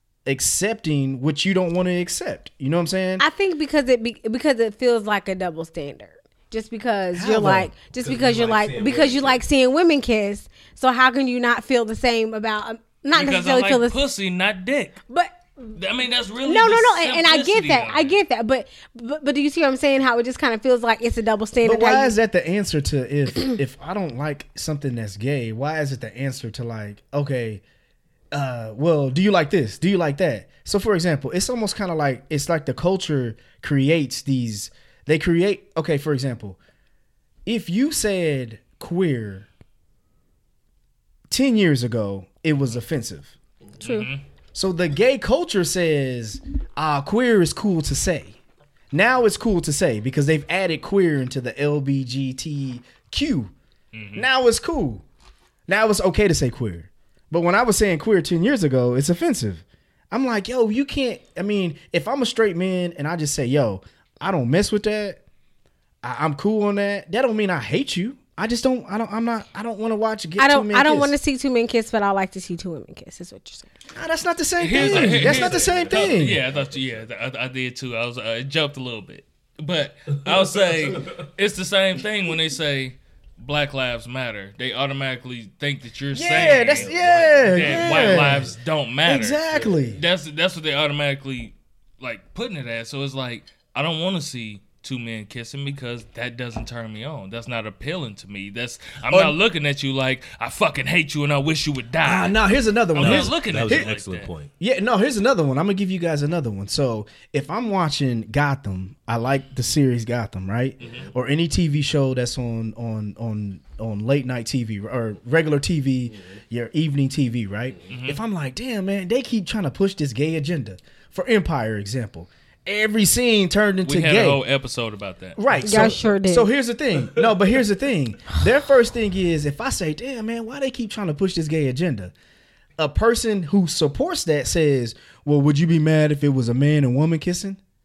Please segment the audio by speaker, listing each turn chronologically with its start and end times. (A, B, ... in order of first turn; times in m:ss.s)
0:00.3-0:03.2 A
0:03.2-0:14.0 B
0:07.1-0:07.7 A
0:07.9-0:09.4 C
0:13.1-0:15.0 D
0:15.1-0:15.8 B
0:15.8-0:18.2 D
0:16.4-0:22.1 B
0:21.6-0:27.6 A
0:28.3-0:36.6 A
0:37.5-0:39.5 A
0:41.3-0:43.4 A
0:43.8-0:44.1 B
0:43.8-0:44.2 D
0:44.6-0:48.4 A
0:48.9-0:53.5 A
0:53.9-0:54.3 D
0:54.2-0:55.0 A
0:55.7-1:05.2 A
1:06.0-1:11.2 A
1:10.4-1:13.7 B
1:14.0-1:16.4 A
1:14.6-1:42.4 D
1:14.7-1:17.1 C
1:20.9-1:21.2 C
1:26.1-1:28.5 A
1:26.3-1:28.5 C
1:29.0-1:30.0 A
1:29.5-1:29.8 C
1:39.1-1:39.4 A
1:42.0-1:43.9 A
1:42.9-1:44.3 D
1:43.0-1:44.5 C
1:44.6-2:04.4 A
1:50.8-1:51.1 C
1:50.8-1:51.1 D
1:57.9-1:58.2 D
2:03.8-2:05.9 D
2:05.4-2:12.1 A
2:05.6-2:06.5 B
2:12.8-2:17.6 A